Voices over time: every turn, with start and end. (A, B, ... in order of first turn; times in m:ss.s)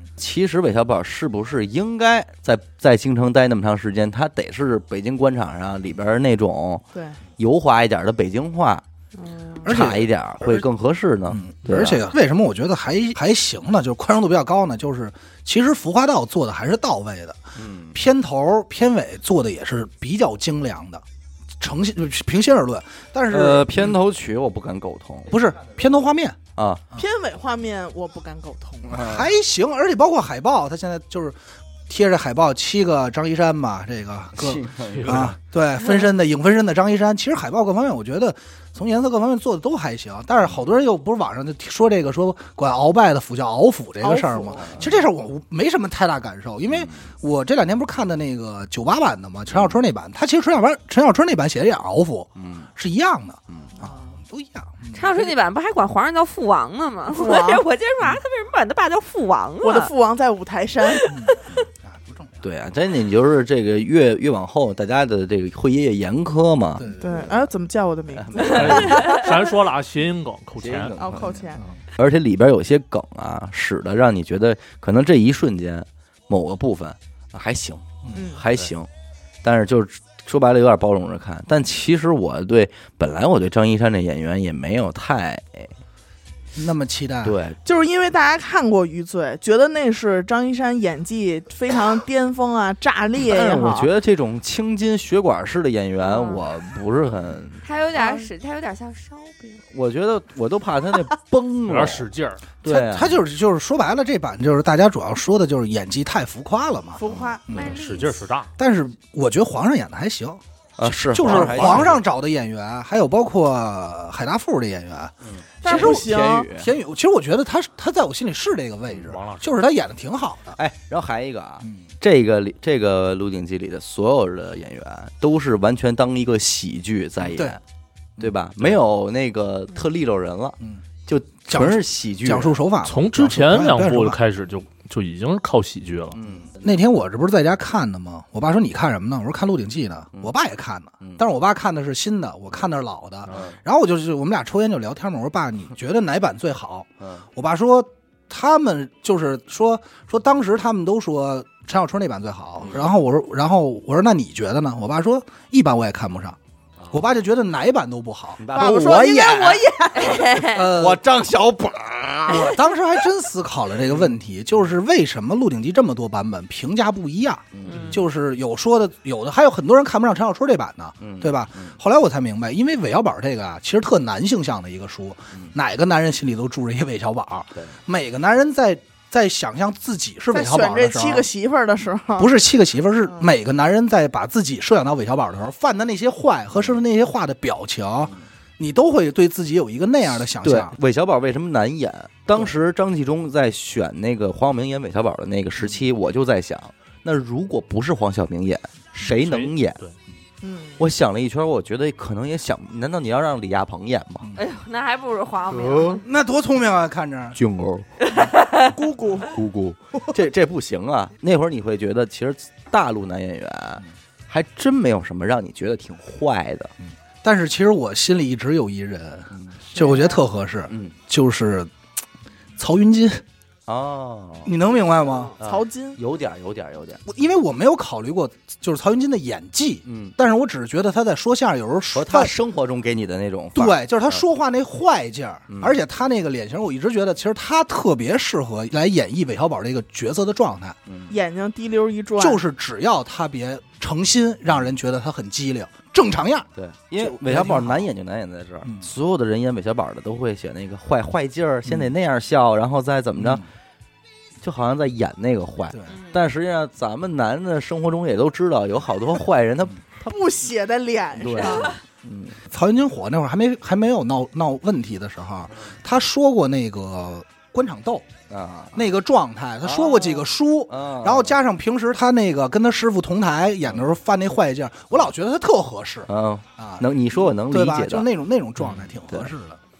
0:00.2-0:06.8 A
0:07.4-0:08.8 A
0:09.2-0:09.7 B
0:09.6-0:10.6 C
0:09.6-0:12.0 A
0:11.3-0:21.0 C
0:17.6-0:18.0 A
0:21.6-0:24.0 C
0:23.3-0:25.3 A
0:25.3-0:26.4 C
0:26.6-0:26.8 A
0:26.9-0:29.0 D
0:28.9-0:29.3 A
0:28.9-0:31.4 C
0:31.9-0:55.1 C
0:34.4-0:35.3 A
0:34.9-0:35.3 E
0:44.0-0:44.8 D
0:44.6-0:44.9 A
0:46.7-0:47.0 A
0:52.4-0:52.7 A
0:53.8-0:54.1 D
0:54.9-0:59.9 B
0:57.1-0:57.6 D
0:59.6-1:01.1 D
1:00.9-1:01.6 B
1:01.0-1:02.4 C
1:02.4-1:06.9 A
1:06.8-1:07.4 C
1:07.0-1:09.2 D
1:08.1-1:09.1 A
1:08.4-1:10.9 E
1:08.6-1:09.3 B
1:10.6-1:11.4 A
1:11.0-1:11.6 D
1:12.0-1:18.9 A
1:18.1-1:18.4 D
1:19.4-1:25.7 A
1:26.5-1:27.4 C
1:27.2-1:27.6 A
1:27.6-1:33.9 D
1:33.2-1:37.6 A
1:36.0-1:36.4 B
1:37.6-1:39.6 B
1:37.9-1:38.3 D
1:39.7-1:42.1 A
1:41.6-1:42.4 E
1:42.6-1:43.2 A
1:42.6-1:47.8 C
1:47.0-1:47.7 D
1:47.1-1:47.4 A
1:47.5-1:48.5 E
1:47.5-1:48.1 B
1:48.6-2:00.6 C
1:50.8-1:52.0 A
1:51.2-1:52.0 E
1:55.2-1:56.7 A
1:55.6-1:56.5 D
1:59.0-1:59.5 E
2:00.6-2:07.6 A
2:01.6-2:01.9 C
2:07.2-2:07.6 C
2:08.2-2:12.6 A
2:11.5-2:14.2 C
2:12.8-2:16.2 E
2:16.2-2:16.5 A
2:16.2-2:36.4 C
2:23.3-2:23.6 A
2:36.9-2:39.1 C
2:38.4-2:39.6 A
2:38.5-2:40.3 D
2:40.0-2:40.6 B
2:40.2-2:41.0 C
2:40.6-2:42.5 A
2:42.3-3:01.3 C
2:43.9-2:44.1 A
2:47.5-2:48.0 A
2:51.0-2:51.7 A
3:00.3-3:02.3 D
3:02.2-3:10.8 C
3:10.4-3:19.8 A
3:19.0-3:19.9 E
3:20.4-3:20.8 D
3:20.8-3:24.3 A
3:24.3-3:26.0 B
3:25.5-3:26.0 A
3:26.0-3:27.4 C
3:27.3-3:27.9 A
3:28.0-3:28.7 B
3:28.7-3:29.3 D
3:29.2-3:36.7 A
3:36.8-3:41.7 C
3:39.7-3:40.2 D
3:40.7-3:40.9 A
3:42.6-3:43.2 C
3:43.7-3:44.5 A
3:44.4-3:45.3 C
3:45.4-3:47.0 A
3:45.4-3:46.0 D
3:47.0-3:52.3 C
3:49.8-3:50.1 A
3:51.9-3:53.8 A
3:53.5-4:00.8 C
3:55.5-3:55.8 A
4:00.9-4:01.1 A
4:01.1-4:02.4 D
4:02.2-4:07.9 C
4:06.6-4:13.4 A
4:08.6-4:08.9 C
4:11.6-4:11.9 C
4:13.2-4:13.4 C
4:14.4-4:20.1 A
4:15.9-4:16.2 B
4:20.0-4:21.8 D
4:21.2-4:22.4 A
4:22.4-4:28.1 C
4:28.3-4:28.8 A
4:28.7-4:39.6 C
4:29.6-4:30.1 A
4:30.7-4:31.3 A
4:36.1-4:38.0 A
4:38.6-4:39.3 A